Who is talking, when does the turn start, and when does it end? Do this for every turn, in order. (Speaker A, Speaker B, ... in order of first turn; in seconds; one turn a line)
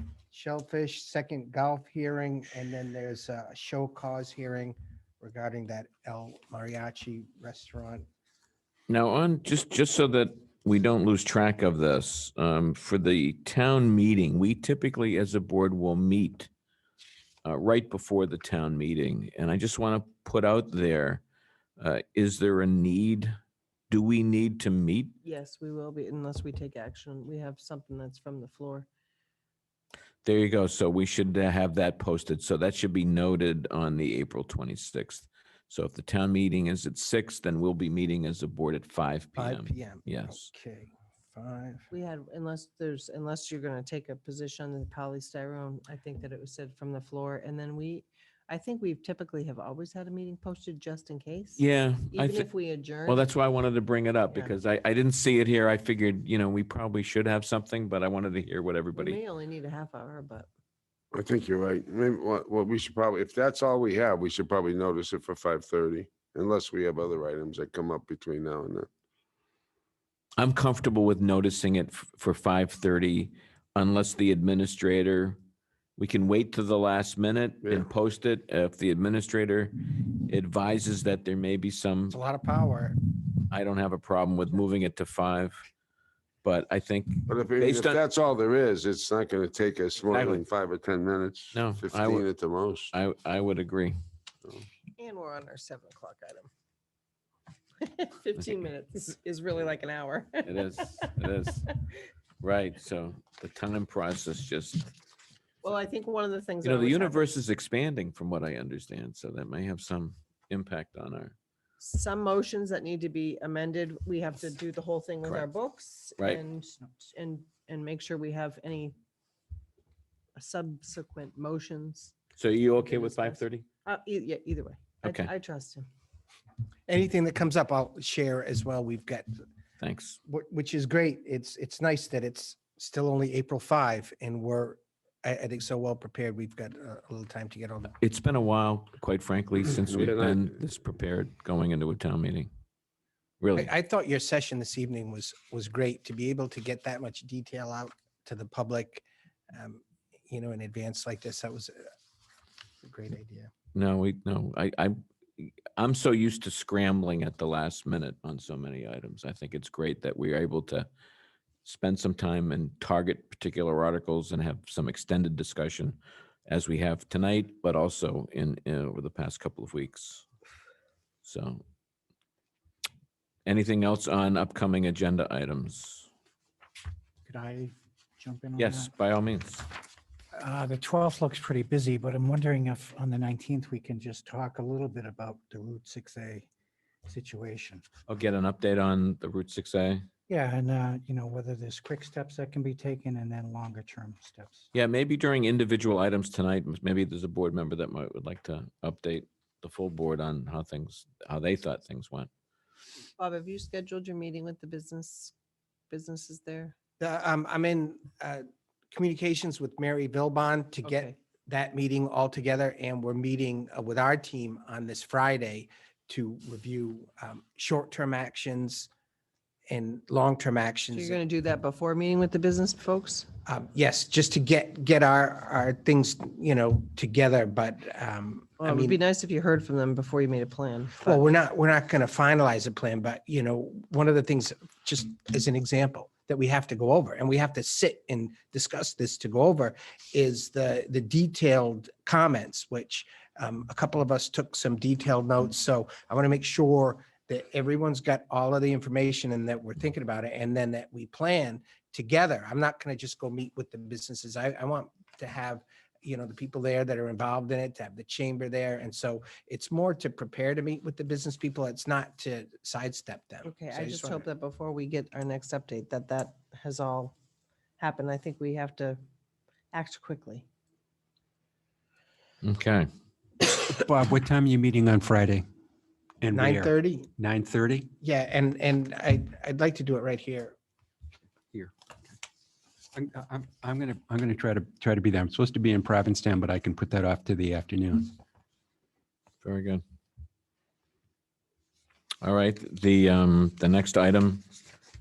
Speaker A: 0.3-8.1
Speaker B: 8.9-16.5
Speaker B: 17.4-21.2
Speaker B: 21.8-23.3
Speaker B: 23.9-25.1
Speaker C: 25.2-28.9
Speaker B: 30.2-40.5
Speaker A: 39.4-41.9
Speaker C: 41.9-53.3
Speaker B: 51.6-52.5
Speaker B: 53.0-59.2
Speaker C: 58.9-60.5
Speaker D: 61.1-68.9
Speaker B: 70.4-75.4
Speaker B: 76.0-82.2
Speaker D: 77.6-77.9
Speaker A: 82.1-83.0
Speaker B: 83.5-85.6
Speaker B: 86.4-88.0
Speaker D: 87.3-92.9
Speaker B: 90.1-90.5
Speaker B: 91.5-92.3
Speaker B: 92.9-93.9
Speaker C: 94.9-96.5
Speaker C: 97.8-101.8
Speaker B: 100.4-101.8
Speaker B: 102.4-104.9
Speaker C: 105.6-107.3
Speaker B: 106.6-111.3
Speaker C: 111.8-119.0
Speaker B: 115.2-115.5
Speaker B: 116.2-116.4
Speaker C: 120.3-122.2
Speaker B: 122.4-123.7
Speaker C: 122.8-125.9
Speaker B: 125.0-125.3
Speaker A: 126.9-129.3
Speaker B: 129.8-130.2
Speaker A: 130.3-137.9
Speaker B: 138.0-142.5
Speaker D: 139.9-140.4
Speaker B: 143.4-143.7
Speaker A: 143.6-151.9
Speaker A: 152.8-153.5
Speaker B: 153.7-160.9
Speaker B: 161.6-170.2
Speaker B: 171.2-171.6
Speaker B: 173.4-176.1
Speaker E: 177.2-178.9
Speaker B: 178.6-179.7
Speaker E: 180.3-186.5
Speaker E: 187.1-187.8
Speaker B: 188.1-190.1
Speaker E: 190.3-194.7
Speaker B: 194.7-202.3
Speaker C: 203.2-205.3
Speaker C: 205.9-206.8
Speaker A: 207.0-218.9
Speaker C: 210.8-211.1
Speaker A: 219.7-221.2
Speaker C: 220.9-223.3
Speaker A: 223.5-229.0
Speaker C: 228.6-231.2
Speaker A: 231.0-264.2
Speaker C: 263.4-267.1
Speaker C: 267.8-269.0
Speaker C: 269.7-270.5
Speaker B: 272.4-272.9
Speaker F: 273.7-275.4
Speaker F: 276.2-277.9
Speaker A: 276.3-277.1
Speaker A: 278.0-280.6
Speaker F: 282.9-288.1
Speaker B: 289.4-289.8
Speaker B: 292.2-294.4